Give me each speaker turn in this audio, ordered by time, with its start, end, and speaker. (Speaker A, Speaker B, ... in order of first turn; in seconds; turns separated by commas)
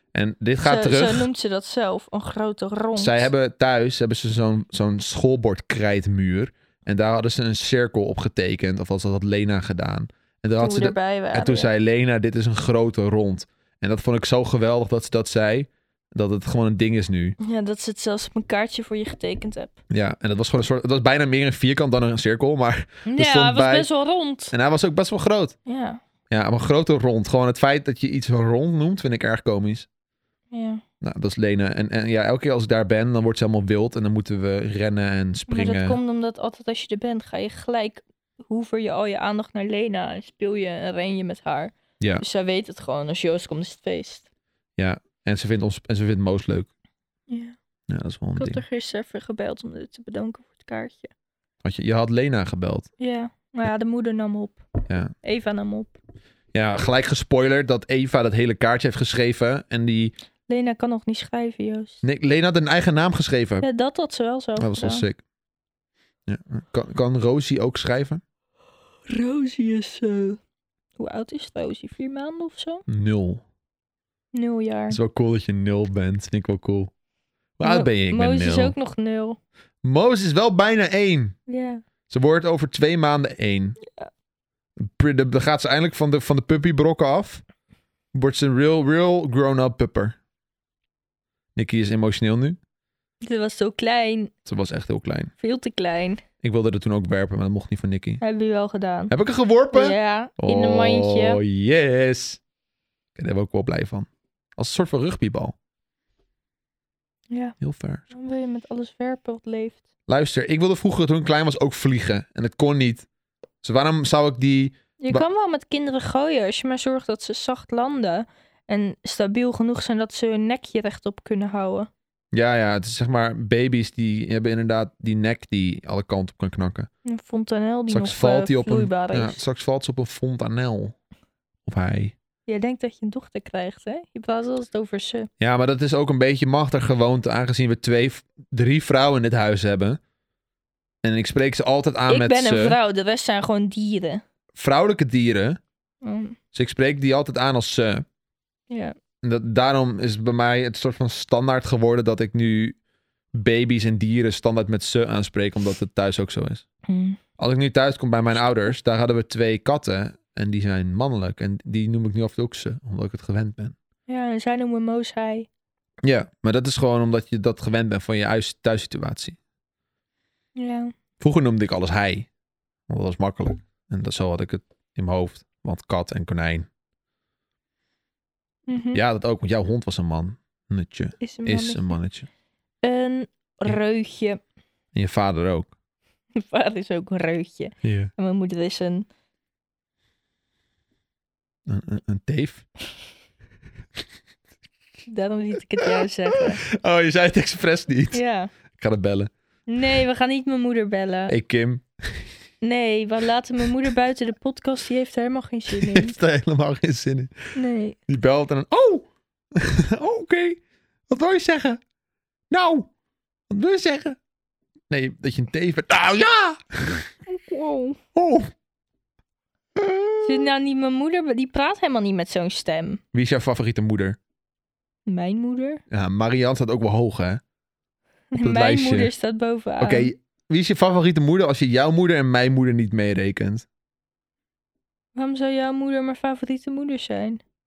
Speaker A: 0.1-1.3, Speaker B: 0.6-3.3, Speaker A: 3.0-17.4, Speaker B: 10.6-11.7, Speaker B: 17.4-19.8, Speaker A: 19.9-23.9, Speaker B: 23.1-24.5, Speaker A: 24.5-25.6, Speaker B: 25.7-26.0, Speaker A: 26.3-29.9, Speaker B: 30.5-30.8, Speaker A: 31.0-36.0, Speaker B: 35.5-44.2, Speaker A: 44.8-46.7, Speaker B: 47.3-47.6, Speaker A: 47.9-48.6, Speaker B: 48.4-51.1, Speaker A: 51.6-52.9, Speaker B: 53.0-54.6, Speaker A: 54.9-55.1, Speaker B: 55.2-56.0, Speaker A: 56.5-60.1, Speaker B: 60.5-62.0, Speaker A: 62.0-63.7, Speaker B: 63.6-65.1, Speaker A: 64.6-65.2, Speaker A: 66.3-68.2, Speaker B: 69.1-70.4, Speaker B: 71.0-72.8, Speaker A: 72.9-73.4, Speaker B: 74.3-75.0, Speaker A: 74.9-76.9, Speaker A: 77.6-78.7, Speaker B: 77.6-79.4, Speaker A: 79.8-81.4, Speaker B: 81.5-81.8, Speaker A: 82.1-83.8, Speaker B: 83.8-84.1, Speaker A: 84.8-87.4, Speaker A: 88.1-90.2, Speaker A: 91.6-92.6, Speaker B: 93.2-94.3, Speaker A: 94.5-95.3, Speaker B: 95.4-96.2, Speaker A: 96.4-98.2, Speaker B: 98.2-99.1, Speaker A: 99.1-102.4, Speaker B: 99.7-101.4, Speaker A: 103.2-105.5, Speaker B: 107.3-107.6, Speaker A: 107.6-108.0, Speaker B: 108.1-109.8, Speaker A: 110.1-113.1, Speaker A: 113.6-115.2, Speaker B: 115.0-121.9, Speaker A: 122.3-126.9, Speaker B: 127.0-129.4, Speaker A: 127.9-130.9, Speaker A: 131.7-132.1, Speaker B: 132.5-135.3, Speaker A: 135.4-140.0, Speaker A: 141.0-142.8, Speaker B: 142.1-144.2, Speaker A: 144.6-145.6, Speaker B: 146.0-146.4, Speaker A: 146.5-148.1, Speaker B: 148.7-148.9, Speaker A: 149.2-152.8, Speaker A: 153.3-156.6, Speaker B: 156.9-157.2, Speaker A: 157.4-163.8, Speaker B: 164.1-165.5, Speaker A: 166.0-169.4, Speaker B: 170.6-170.9, Speaker A: 171.2-172.3, Speaker A: 172.9-176.7, Speaker B: 178.7-179.0, Speaker A: 178.9-182.3, Speaker B: 181.2-182.0, Speaker B: 182.8-184.4, Speaker A: 184.9-185.7, Speaker B: 186.3-189.1, Speaker A: 187.8-188.1, Speaker A: 191.7-192.6, Speaker B: 195.1-196.6, Speaker A: 195.8-198.2, Speaker B: 198.1-198.5, Speaker A: 198.8-199.3, Speaker B: 199.7-201.3, Speaker A: 201.3-202.3, Speaker B: 202.6-206.2, Speaker A: 205.7-207.4, Speaker B: 207.6-208.0, Speaker A: 208.1-211.8, Speaker A: 212.5-212.9, Speaker A: 213.5-214.2, Speaker A: 214.9-217.1, Speaker B: 217.3-218.0, Speaker A: 218.2-218.5, Speaker A: 219.8-220.5, Speaker B: 220.2-223.0, Speaker A: 223.1-224.2, Speaker B: 225.1-225.8, Speaker A: 225.9-227.4, Speaker B: 228.3-230.1, Speaker A: 228.4-229.1, Speaker A: 229.8-233.7, Speaker B: 235.2-237.4